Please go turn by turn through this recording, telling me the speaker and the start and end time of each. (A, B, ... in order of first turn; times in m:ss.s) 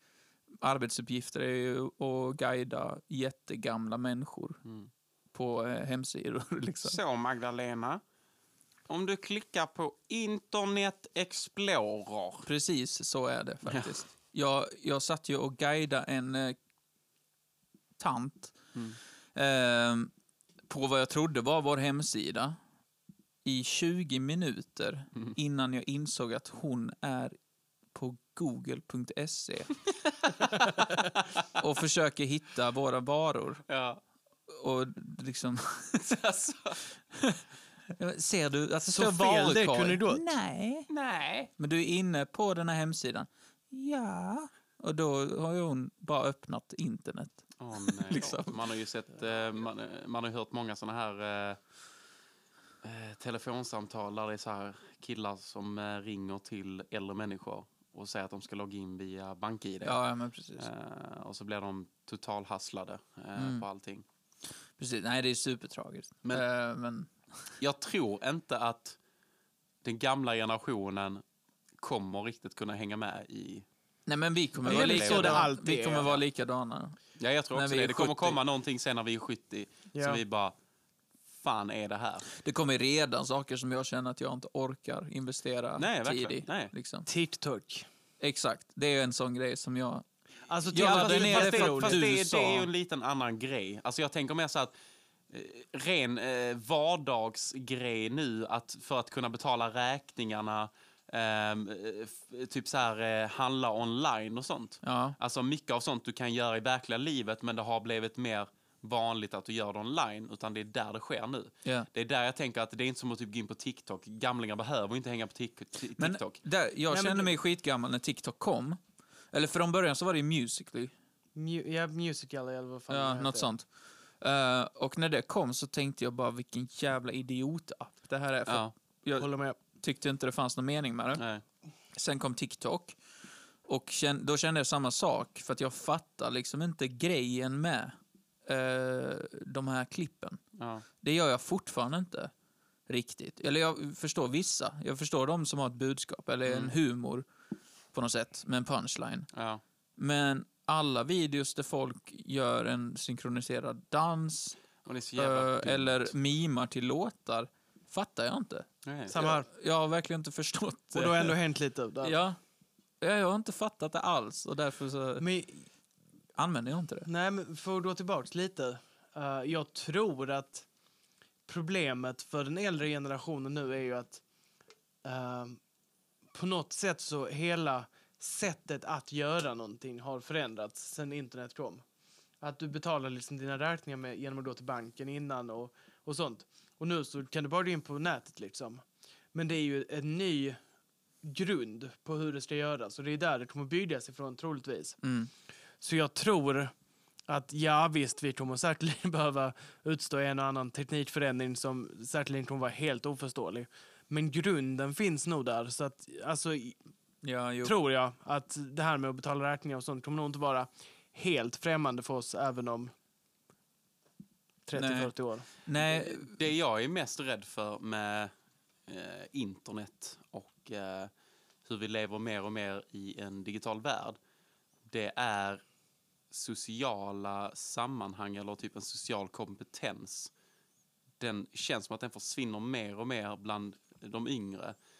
0:00.6-0:04.6 A
0:05.3-0:07.0 A
0:06.8-0:08.0 B
0:08.9-0:12.5 B
0:12.5-0:16.6 A
0:13.7-0:13.9 B
0:18.0-0:18.6 A
0:19.4-0:20.1 A
0:20.7-0:22.6 A
0:23.4-0:27.4 A
0:27.9-0:29.8 A
0:30.4-0:30.7 A
0:31.6-0:33.6 A
0:33.7-0:34.0 B
0:34.5-0:36.2 A
0:36.0-0:36.8 B
0:37.1-0:37.4 A
0:37.9-0:40.9 A
0:38.8-0:40.4 C
0:40.9-0:41.5 B
0:41.6-0:48.6 A
0:47.6-0:51.6 B
0:52.8-1:00.0 B
0:59.8-1:00.7 A
1:00.6-1:04.0 B
1:03.4-1:03.6 A
1:04.8-1:07.1 A
1:07.6-1:09.0 B
1:09.8-1:11.2 B
1:11.8-1:13.6 B
1:14.1-1:17.0 A
1:14.6-1:15.5 B
1:14.6-1:16.2 C
1:17.2-1:20.6 B
1:17.5-1:18.4 A
1:19.9-1:20.2 C
1:21.4-1:22.3 B
1:22.3-1:27.1 A
1:25.8-1:26.7 B
1:27.1-1:27.9 C
1:28.2-1:30.0 A
1:30.5-1:32.0 C
1:30.7-1:32.7 A
1:30.7-1:34.8 B
1:35.3-1:56.4 B
1:44.8-1:45.2 A
1:56.0-1:58.8 A
1:56.9-1:57.3 C
1:59.3-2:00.9 A
2:01.4-2:03.5 C
2:02.9-2:03.7 A
2:04.2-2:11.2 A
2:08.5-2:08.7 B
2:09.2-2:09.6 C
2:11.2-2:11.4 B
2:11.9-2:13.0 A
2:13.7-2:18.0 A
2:18.5-2:20.4 A
2:20.6-2:20.8 B
2:21.0-2:22.3 A
2:22.9-2:27.3 A
2:26.5-2:26.8 B
2:27.9-2:29.3 A
2:29.3-2:29.6 B
2:30.0-2:34.6 A
2:34.8-2:36.1 B
2:35.2-2:41.4 A
2:38.8-2:39.2 B
2:39.1-2:39.5 C
2:40.9-2:42.2 C
2:42.0-2:42.4 A
2:43.0-2:45.3 A
2:45.2-2:45.6 C
2:46.4-2:47.1 A
2:47.1-2:50.7 C
2:51.5-2:54.2 C
2:55.0-2:55.6 C
2:56.3-3:01.8 C
3:02.4-3:08.8 C
3:09.3-3:10.6 C
3:11.2-3:15.0 C
3:15.0-3:15.3 A
3:15.8-3:16.7 C
3:17.3-3:26.8 C
3:27.2-3:27.8 A
3:27.6-3:32.9 C
3:34.7-3:35.5 C
3:34.8-3:35.1 A
3:35.6-3:36.4 A
3:35.8-3:38.3 B
3:38.9-3:41.1 B
3:41.6-3:44.2 B
3:44.9-3:45.6 B
3:46.3-3:50.3 B
3:51.2-3:54.8 B